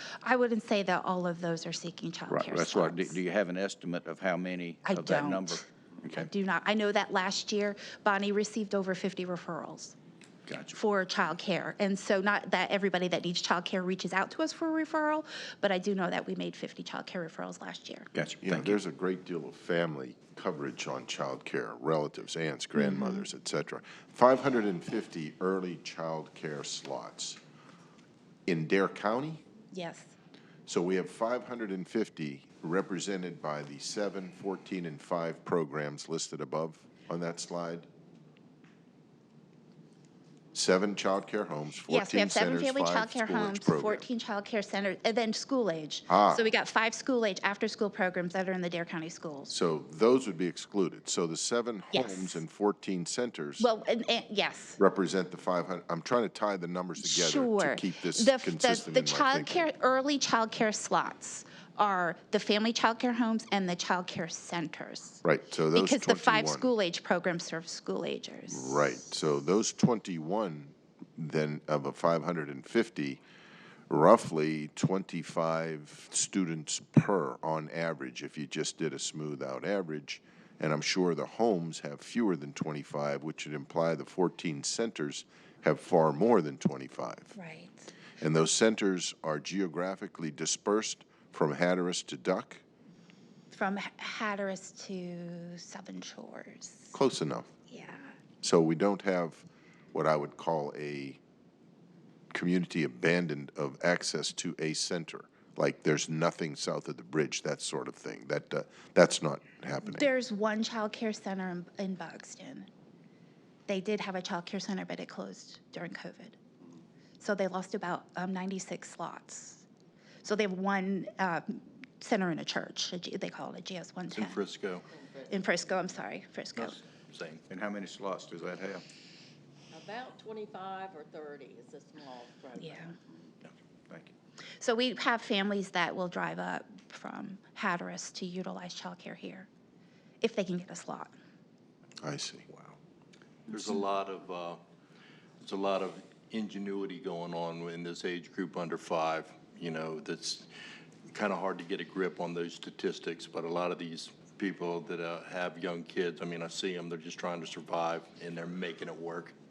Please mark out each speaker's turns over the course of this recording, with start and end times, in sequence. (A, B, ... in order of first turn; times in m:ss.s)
0:00.2-0:03.2 A
0:02.3-0:06.3 B
0:04.8-0:10.0 A
0:10.5-0:10.8 B
0:10.7-0:18.1 A
0:18.1-0:18.8 B
0:18.4-0:27.4 C
0:22.8-0:23.2 A
0:28.5-0:29.4 C
0:29.7-0:30.1 A
0:30.7-0:37.9 C
0:40.5-0:44.1 C
0:41.9-0:49.5 A
0:46.1-0:46.5 C
0:49.5-0:53.7 C
0:51.9-0:52.4 A
0:53.6-0:54.8 A
0:54.8-0:59.7 C
0:57.0-1:05.2 A
1:05.2-1:06.7 C
1:05.7-1:08.9 A
1:08.5-1:13.2 C
1:13.9-1:27.3 C
1:27.4-1:27.9 A
1:28.2-1:32.6 C
1:33.5-1:36.9 A
1:36.9-1:37.5 C
1:37.7-1:38.2 A
1:38.4-1:41.2 C
1:42.3-1:50.1 C
1:49.8-1:52.7 A
1:53.7-1:56.4 A
1:57.2-1:59.6 A
2:00.2-2:04.4 A
2:04.1-2:04.8 D
2:05.3-2:06.8 A
2:06.6-2:07.4 D
2:07.5-2:08.8 B
2:09.7-2:12.9 E
2:12.6-2:12.9 A
2:14.6-2:19.5 A
2:20.2-2:21.1 A
2:22.0-2:22.5 C
2:23.5-2:24.6 D
2:25.4-2:30.5 D
2:31.1-2:39.4 D